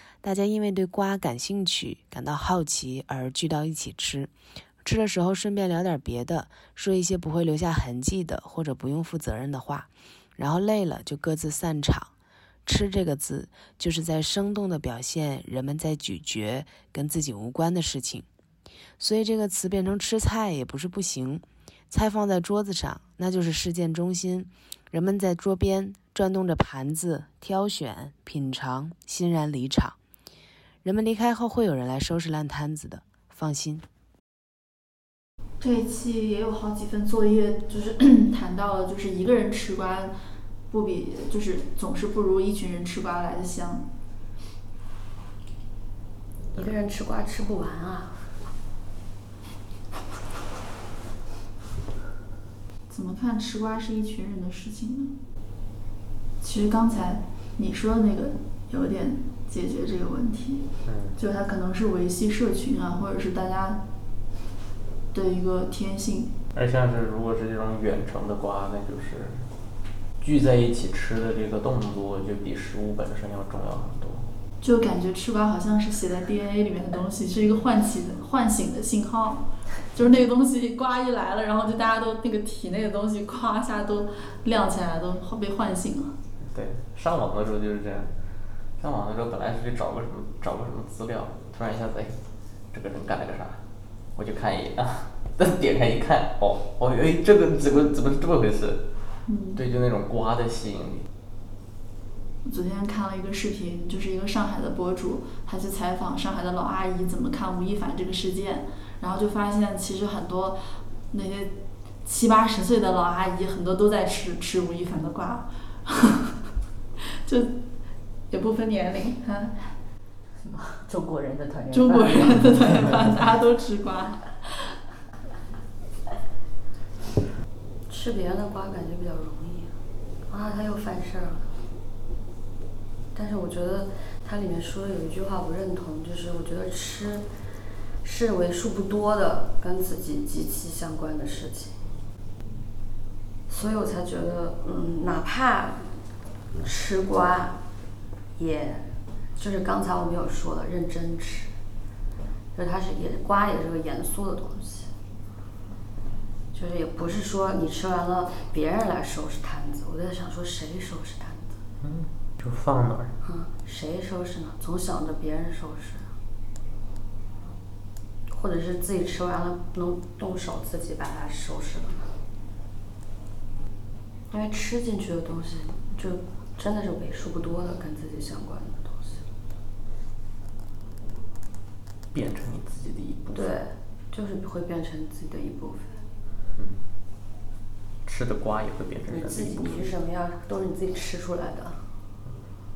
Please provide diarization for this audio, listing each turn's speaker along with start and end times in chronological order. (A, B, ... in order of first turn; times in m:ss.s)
0:00.2-0:12.1 A
0:12.7-0:18.3 A
0:19.0-0:30.0 A
0:30.8-0:33.8 A
0:35.6-0:40.1 B
0:40.7-0:43.9 B
0:46.5-0:48.2 C
0:52.9-0:55.1 B
0:56.4-1:03.8 B
1:00.9-1:01.2 D
1:05.1-1:06.4 B
1:06.5-1:09.5 D
1:10.2-1:14.3 D
1:14.6-1:26.2 B
1:26.4-1:28.1 D
1:28.8-1:32.2 D
1:32.7-1:33.6 D
1:34.2-1:38.9 D
1:39.3-1:39.6 B
1:39.6-1:41.1 D
1:42.4-1:56.3 B
1:57.3-1:57.6 B
1:58.3-1:59.7 B
2:00.4-2:02.9 E
2:01.7-2:04.8 B
2:07.9-2:09.7 C
2:10.3-2:11.5 C
2:13.1-2:17.3 C
2:18.0-2:21.8 C
2:23.5-2:26.0 C
2:26.6-2:27.6 C
2:28.4-2:31.5 C
2:32.6-2:34.9 C
2:36.5-2:41.6 C
2:41.8-2:43.1 D
2:43.2-2:46.1 C
2:48.3-2:52.1 C
2:54.3-2:59.2 C
3:02.1-3:03.6 D
3:03.3-3:06.0 C
3:08.0-3:09.9 D
3:09.1-3:11.8 C